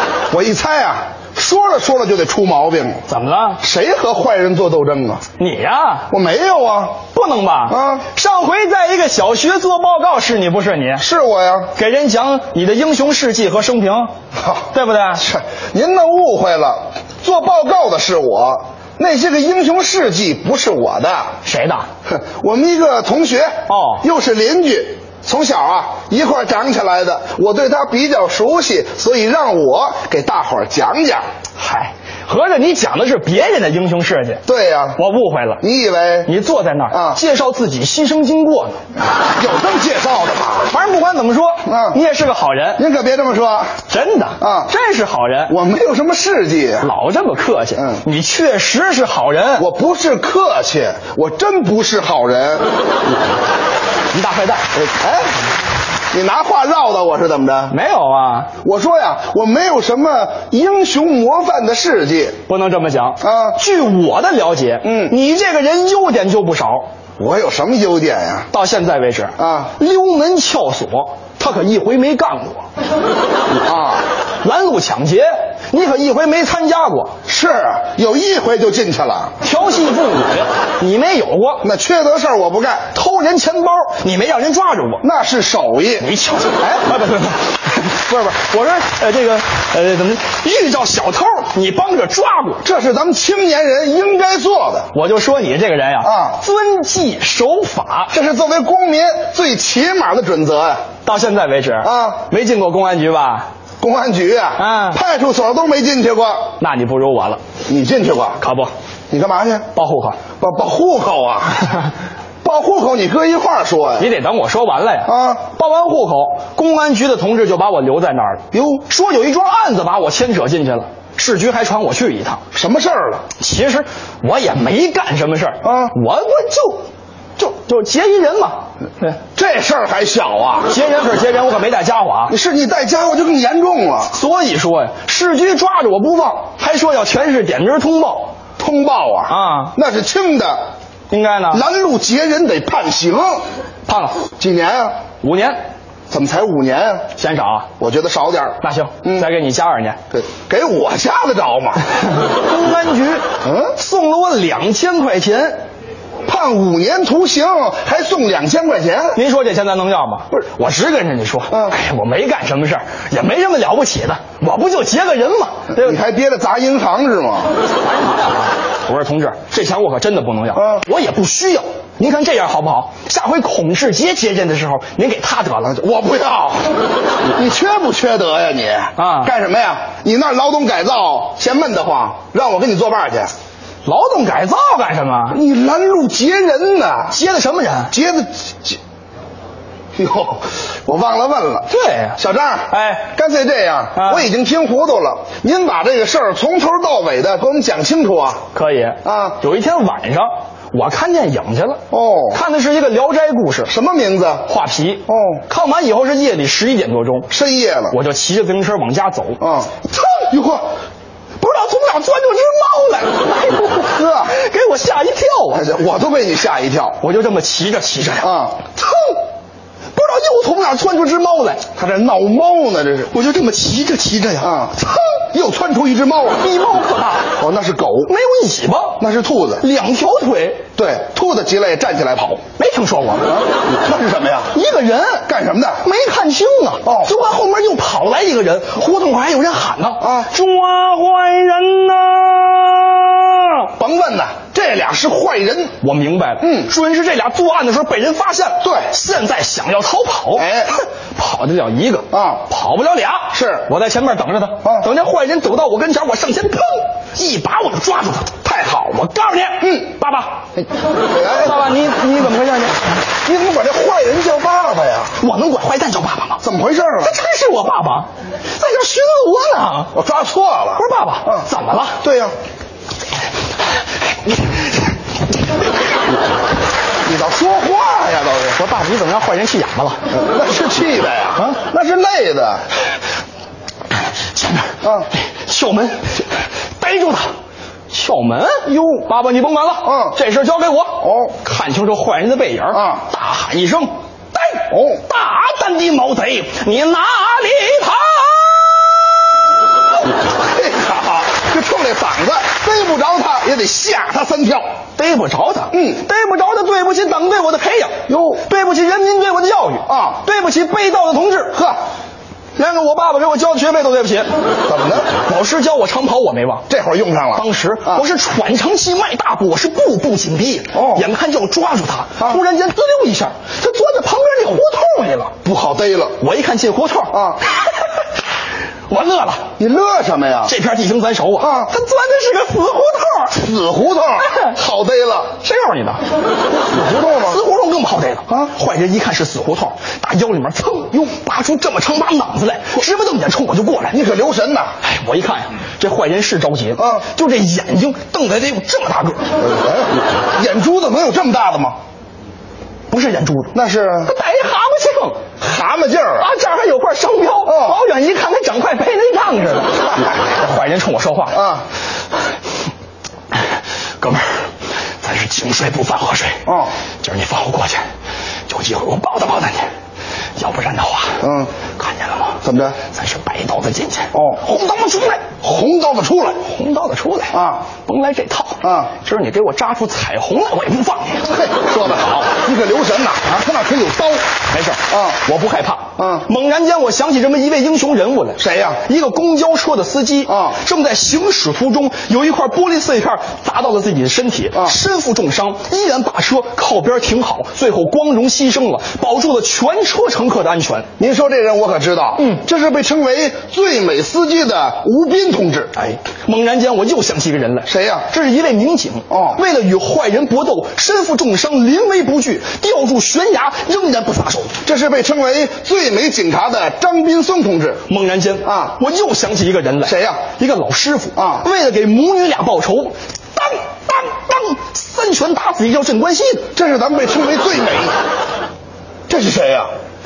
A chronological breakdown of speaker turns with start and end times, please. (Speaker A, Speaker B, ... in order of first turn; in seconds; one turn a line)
Speaker A: 0.3-3.0
Speaker B: 3.1-3.6
Speaker A: 3.6-5.2
Speaker B: 5.4-6.1
Speaker A: 6.1-7.0
Speaker B: 7.1-11.1
Speaker A: 7.7-8.1
Speaker A: 11.0-11.7
Speaker B: 11.8-14.1
Speaker A: 14.3-21.3
Speaker B: 14.7-15.2
Speaker B: 21.4-21.9
Speaker A: 22.1-31.2
Speaker B: 23.7-24.0
Speaker B: 31.6-34.4
Speaker A: 34.5-35.0
Speaker B: 35.0-35.6
Speaker A: 35.6-36.3
Speaker B: 36.3-38.8
Speaker A: 36.9-37.2
Speaker A: 39.2-40.8
Speaker B: 40.7-42.8
Speaker A: 41.7-42.0
Speaker A: 42.8-43.8
Speaker B: 43.9-45.5
Speaker A: 44.4-44.7
Speaker A: 45.5-46.9
Speaker B: 46.8-49.7
Speaker A: 47.8-48.0
Speaker A: 49.6-52.7
Speaker B: 54.1-54.7
Speaker A: 54.7-55.4
Speaker A: 56.1-57.8
Speaker B: 57.7-58.5
Speaker A: 58.6-62.4
Speaker B: 62.5-66.9
Speaker A: 63.2-63.6
Speaker A: 64.8-65.2
Speaker A: 67.2-68.5
Speaker B: 68.5-72.7
Speaker A: 69.4-69.7
Speaker A: 73.6-74.1
Speaker B: 74.4-77.2
Speaker A: 77.3-79.3
Speaker B: 79.4-81.7
Speaker A: 81.6-82.9
Speaker B: 82.9-85.0
Speaker A: 85.0-86.1
Speaker B: 86.0-92.7
Speaker A: 92.6-94.9
Speaker B: 94.9-98.2
Speaker A: 96.0-96.4
Speaker A: 98.1-100.8
Speaker B: 101.0-103.5
Speaker A: 101.8-102.2
Speaker A: 103.8-106.5
Speaker B: 104.6-105.0
Speaker B: 106.6-107.4
Speaker A: 107.7-108.4
Speaker B: 108.4-108.7
Speaker A: 109.1-109.7
Speaker B: 109.7-110.2
Speaker A: 110.4-111.7
Speaker A: 112.4-114.1
Speaker B: 114.0-122.4
Speaker A: 115.1-115.4
Speaker A: 118.5-118.8
Speaker A: 122.5-123.3
Speaker B: 123.4-126.9
Speaker A: 125.6-126.0
Speaker B: 127.4-129.2
Speaker A: 129.4-130.8
Speaker B: 130.7-132.4
Speaker A: 132.3-134.1
Speaker B: 134.1-138.3
Speaker A: 138.6-140.6
Speaker B: 139.3-139.8
Speaker B: 141.1-141.6
Speaker A: 141.5-143.4
Speaker B: 143.9-144.2
Speaker A: 144.3-144.9
Speaker B: 145.2-145.6
Speaker A: 146.1-147.1
Speaker B: 147.2-147.7
Speaker A: 147.8-149.3
Speaker B: 148.6-150.0
Speaker A: 150.1-151.8
Speaker B: 152.1-155.6
Speaker A: 153.4-153.8
Speaker A: 156.2-159.2
Speaker B: 159.2-166.0
Speaker A: 161.5-161.8
Speaker A: 165.8-167.5
Speaker B: 167.8-175.8
Speaker A: 170.6-170.8
Speaker A: 175.7-176.7
Speaker A: 177.3-183.3
Speaker B: 179.0-179.3
Speaker B: 183.8-185.4
Speaker A: 185.3-187.2
Speaker B: 187.1-187.9
Speaker A: 187.9-188.8
Speaker A: 190.0-198.4
Speaker B: 191.7-192.2
Speaker B: 192.7-193.1
Speaker B: 194.0-194.3
Speaker B: 198.5-203.7
Speaker A: 199.0-199.4
Speaker A: 201.9-202.4
Speaker A: 203.7-204.5
Speaker B: 204.5-207.3
Speaker A: 205.1-205.4
Speaker A: 207.3-208.0
Speaker B: 207.9-209.4
Speaker A: 209.4-210.6
Speaker B: 211.4-215.7
Speaker A: 213.9-214.3
Speaker A: 215.5-217.0
Speaker B: 217.0-219.2
Speaker A: 218.2-218.6
Speaker B: 219.9-221.6
Speaker A: 221.8-223.1
Speaker B: 223.1-225.0
Speaker A: 224.4-226.5
Speaker B: 226.4-227.3
Speaker A: 227.4-228.1
Speaker B: 228.1-229.0
Speaker A: 229.0-229.6
Speaker B: 229.6-230.7
Speaker A: 230.8-232.4
Speaker B: 232.6-233.3
Speaker A: 233.3-234.6
Speaker B: 234.5-235.3
Speaker A: 235.3-235.9
Speaker B: 235.8-243.7
Speaker A: 236.8-237.1
Speaker A: 240.0-240.3
Speaker A: 243.8-245.8
Speaker B: 245.8-260.5
Speaker A: 246.4-246.7
Speaker A: 248.6-248.9
Speaker A: 250.4-250.8
Speaker A: 252.1-252.4
Speaker A: 253.3-253.7
Speaker A: 259.6-259.9
Speaker A: 261.1-261.6
Speaker B: 261.2-263.0
Speaker A: 263.2-265.1
Speaker B: 265.2-266.4
Speaker A: 266.4-267.2
Speaker B: 267.0-269.9
Speaker A: 269.9-271.5
Speaker B: 270.8-272.0
Speaker A: 272.0-272.3
Speaker A: 277.0-278.6
Speaker B: 278.5-280.1
Speaker A: 280.1-282.6
Speaker B: 284.2-287.3
Speaker A: 284.8-285.1
Speaker B: 287.9-299.5
Speaker A: 288.7-289.1
Speaker A: 289.8-290.2
Speaker A: 291.0-291.4
Speaker A: 292.7-293.1
Speaker A: 294.7-295.0
Speaker A: 300.3-304.6
Speaker B: 305.0-307.9
Speaker A: 305.7-306.0
Speaker A: 308.1-308.4
Speaker B: 308.4-311.6
Speaker A: 309.9-310.2
Speaker B: 312.6-314.3
Speaker A: 314.6-315.2
Speaker B: 315.2-316.6
Speaker A: 316.7-318.0
Speaker B: 317.4-325.3
Speaker A: 320.7-321.1
Speaker A: 325.4-326.2
Speaker B: 326.2-328.1
Speaker A: 327.1-327.4
Speaker B: 328.9-329.4
Speaker A: 329.6-330.6
Speaker B: 330.5-333.4
Speaker A: 331.4-331.7
Speaker A: 333.3-335.4
Speaker B: 334.2-334.5
Speaker B: 335.4-336.0
Speaker A: 336.6-337.4
Speaker B: 337.1-344.0
Speaker A: 343.9-344.7
Speaker B: 344.8-349.3
Speaker A: 346.8-347.1
Speaker A: 349.4-351.8
Speaker B: 352.9-355.2
Speaker A: 353.5-354.1
Speaker A: 355.4-356.3
Speaker B: 356.2-361.4
Speaker A: 357.5-357.8
Speaker A: 361.3-361.7
Speaker B: 364.0-364.4
Speaker B: 365.0-366.4
Speaker A: 366.5-366.7
Speaker B: 367.0-367.9
Speaker B: 368.5-369.7
Speaker B: 370.4-371.2
Speaker A: 371.2-371.5
Speaker B: 371.8-375.3
Speaker A: 372.4-372.8
Speaker A: 374.1-374.5
Speaker A: 375.3-376.4
Speaker B: 376.4-381.3
Speaker A: 377.3-377.7
Speaker A: 378.6-378.9
Speaker A: 381.3-384.2
Speaker B: 384.5-400.9
Speaker A: 384.9-385.2
Speaker A: 386.0-386.3
Speaker A: 388.4-388.8
Speaker A: 390.3-390.6
Speaker A: 401.0-405.7
Speaker B: 405.8-414.6
Speaker A: 407.7-408.1
Speaker A: 409.1-409.4
Speaker A: 414.6-417.9
Speaker B: 417.9-426.5
Speaker A: 418.4-418.8
Speaker A: 419.8-420.2
Speaker A: 421.2-421.5
Speaker A: 426.5-427.9
Speaker A: 429.1-429.7